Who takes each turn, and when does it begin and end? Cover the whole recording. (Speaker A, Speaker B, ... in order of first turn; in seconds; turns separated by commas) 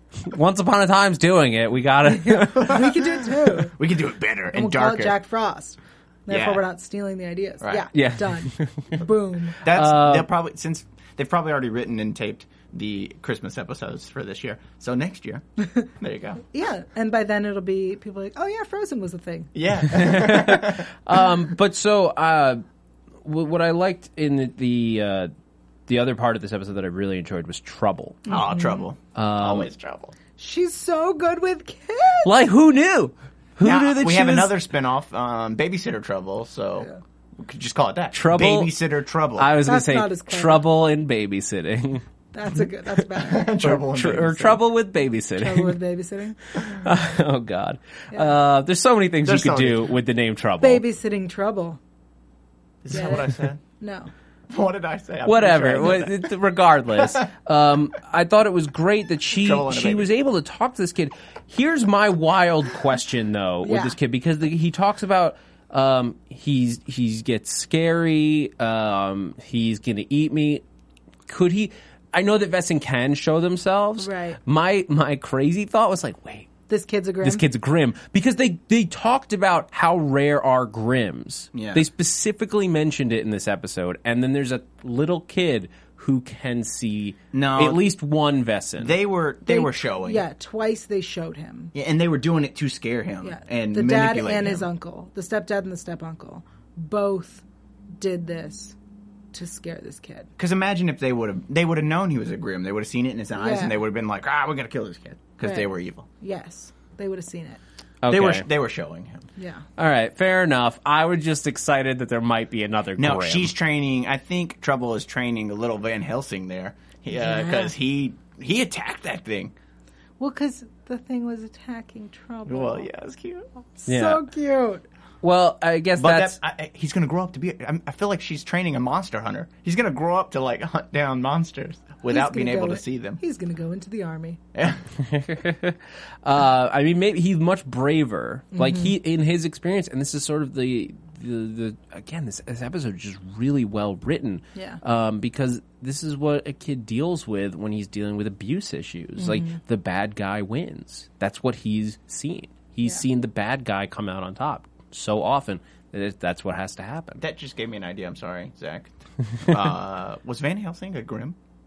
Speaker A: 0.2-2.9, Speaker B: 2.1-3.7, Speaker C: 3.6-5.2, Speaker B: 4.5-9.6, Speaker C: 6.3-6.6, Speaker C: 7.6-7.9, Speaker A: 7.9-9.0, Speaker A: 9.6-10.3, Speaker C: 9.6-15.4, Speaker C: 16.0-16.4, Speaker B: 16.5-19.5, Speaker C: 19.5-20.9, Speaker A: 19.9-22.6, Speaker A: 23.2-25.3, Speaker A: 25.9-28.4, Speaker B: 28.3-28.9, Speaker C: 28.3-30.1, Speaker A: 29.1-29.7, Speaker B: 30.4-32.3, Speaker A: 32.2-34.5, Speaker C: 33.6-39.5, Speaker A: 38.1-38.7, Speaker A: 39.4-42.0, Speaker B: 39.6-40.6, Speaker B: 42.3-43.5, Speaker C: 43.2-44.6, Speaker A: 43.6-45.8, Speaker B: 45.4-46.9, Speaker A: 46.5-50.8, Speaker C: 49.2-49.9, Speaker B: 50.6-51.8, Speaker C: 52.8-53.6, Speaker B: 52.9-53.3, Speaker B: 53.8-54.1, Speaker C: 54.5-56.3, Speaker A: 55.2-70.6, Speaker C: 59.3-60.1, Speaker B: 63.6-64.0, Speaker A: 71.3-76.5, Speaker B: 74.0-74.4, Speaker B: 76.7-77.4, Speaker A: 77.2-89.0, Speaker C: 81.5-81.8, Speaker C: 87.3-87.8, Speaker C: 88.8-90.2, Speaker B: 89.5-91.7, Speaker C: 91.7-94.7, Speaker B: 93.2-97.4, Speaker B: 98.0-98.8, Speaker B: 99.3-100.3, Speaker C: 100.4-106.1, Speaker B: 103.3-103.8, Speaker B: 105.4-107.6, Speaker A: 108.0-108.5, Speaker C: 108.1-109.3, Speaker B: 109.4-109.6, Speaker A: 109.8-113.5, Speaker C: 113.0-119.5, Speaker B: 117.2-117.7, Speaker B: 120.2-122.9, Speaker C: 122.5-123.5, Speaker B: 123.8-124.8, Speaker A: 123.9-124.2, Speaker A: 125.2-126.4, Speaker C: 126.0-133.2, Speaker B: 132.1-134.4, Speaker C: 134.5-134.8, Speaker A: 135.0-157.2, Speaker B: 138.5-138.9, Speaker B: 149.2-149.6, Speaker C: 157.2-161.3